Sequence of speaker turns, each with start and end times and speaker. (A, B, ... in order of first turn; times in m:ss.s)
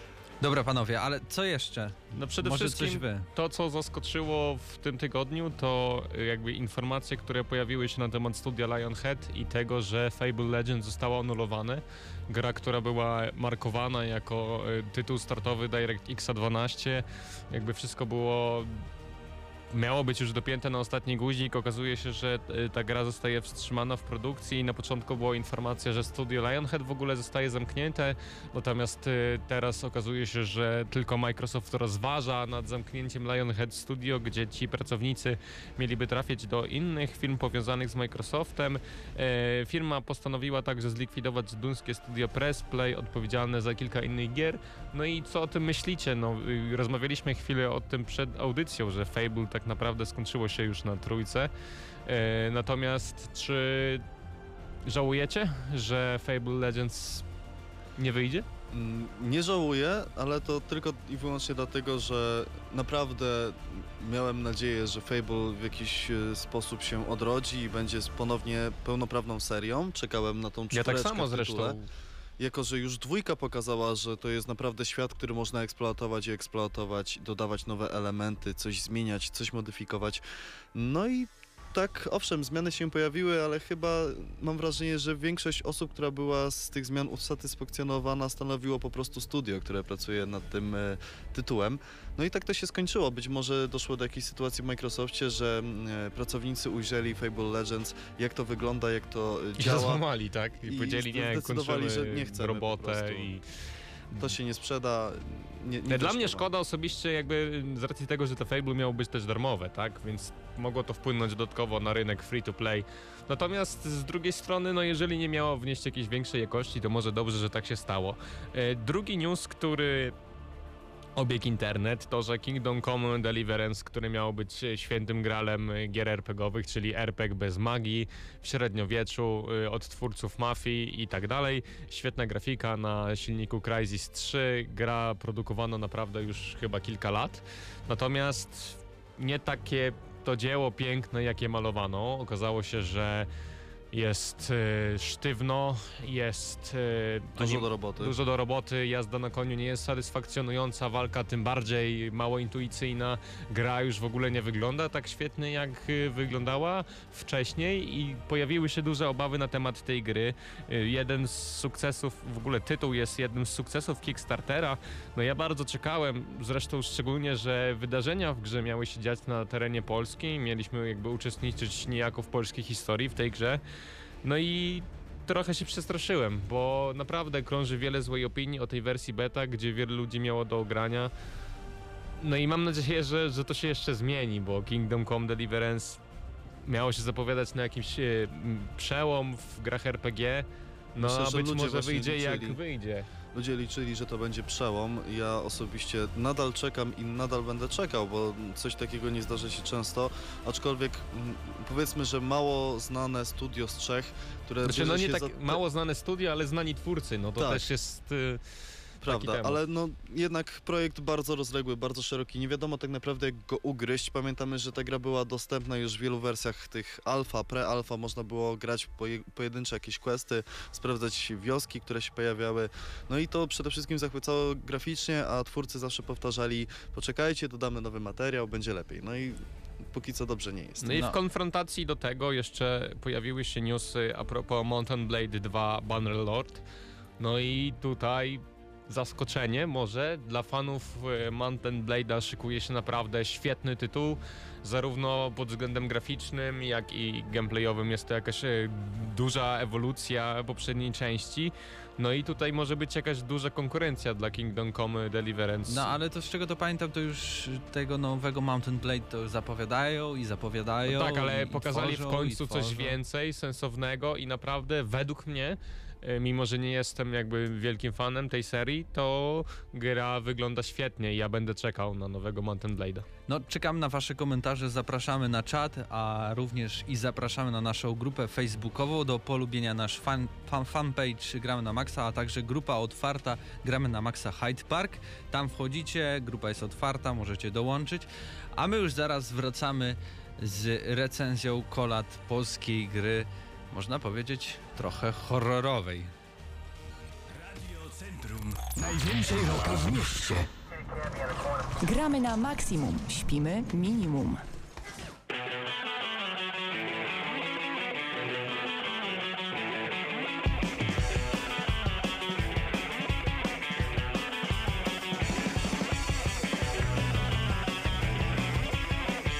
0:00.4-0:03.3 A
0:02.1-0:18.8 B
0:19.7-0:51.5 B
0:52.1-0:54.0 B
0:54.9-0:57.2 B
0:58.0-0:58.5 B
0:58.7-1:11.8 C
1:10.7-1:11.8 B
1:12.4-1:20.2 C
1:20.7-1:40.0 C
1:39.6-1:43.4 B
1:40.6-1:43.3 C
1:44.2-1:46.5 C
1:45.9-2:00.2 B
2:01.2-2:23.3 B
2:23.9-2:53.6 B
2:27.4-2:28.2 C
2:54.2-3:01.1 B
3:02.2-3:06.0 B
3:06.7-3:13.1 B
3:11.0-3:12.6 C
3:13.3-3:25.6 C
3:24.6-3:28.4 B
3:27.4-3:27.6 C
3:29.0-3:51.0 C
3:29.0-3:29.6 B
3:50.8-3:56.6 B
3:50.9-3:51.2 A
3:57.2-4:15.9 B
4:15.7-4:23.0 A
4:20.8-4:33.1 B
4:33.3-4:56.1 A
4:57.7-5:00.4 D
5:01.8-5:04.4 E